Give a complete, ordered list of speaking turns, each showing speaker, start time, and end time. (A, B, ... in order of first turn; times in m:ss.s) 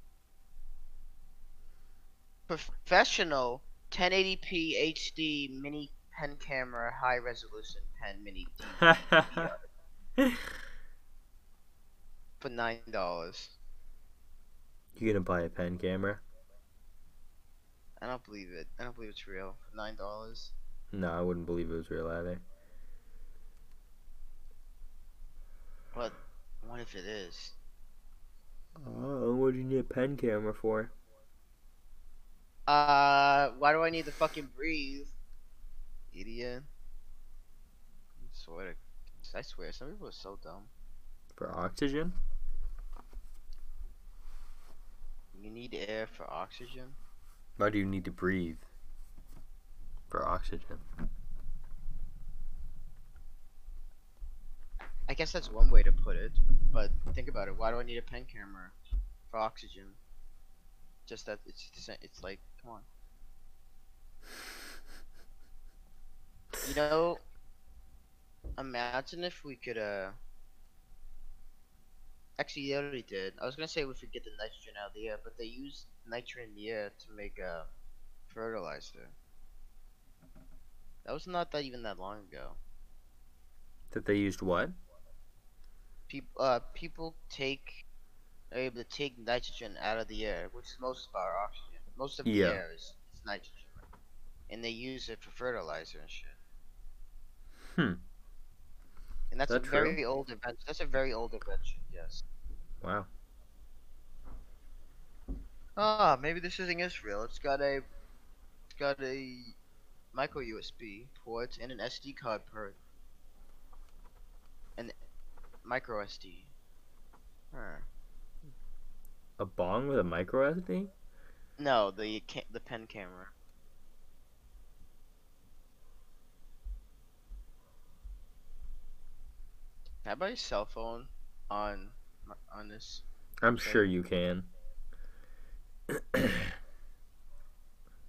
0:02.5-0:09.6 A
0:08.8-0:09.5 B
0:12.4-0:13.5 A
0:15.0-0:16.2 B
0:18.0-0:20.5 A
0:20.9-0:22.4 B
0:25.9-0:27.6 A
0:28.8-0:30.9 B
0:32.7-0:35.1 A
0:36.1-0:36.6 A
0:38.2-0:40.7 A
0:41.4-0:42.2 B
0:45.3-0:47.0 A
0:47.6-0:48.6 B
0:50.1-0:50.8 B
0:55.1-0:58.7 A
0:59.3-1:00.0 A
1:01.1-1:02.8 A
1:06.6-1:07.2 A
1:08.6-1:10.2 A
1:12.4-1:17.7 A
1:18.3-1:19.1 A
1:21.0-1:22.6 A
1:23.9-1:24.8 B
1:26.1-1:27.8 A
1:28.5-1:33.7 A
1:32.2-1:32.6 B
1:34.5-1:36.4 A
1:37.7-1:38.0 B
1:39.3-1:42.2 A
1:39.5-1:40.0 B
1:42.8-1:43.1 B
1:45.8-1:47.8 A
1:48.7-1:49.5 A
1:50.1-1:52.8 A
1:55.6-1:56.5 A
1:57.5-1:57.8 A
1:59.4-2:00.9 B
2:01.6-2:03.3 A
2:10.0-2:13.0 A
2:13.4-2:14.5 B
2:15.9-2:16.5 B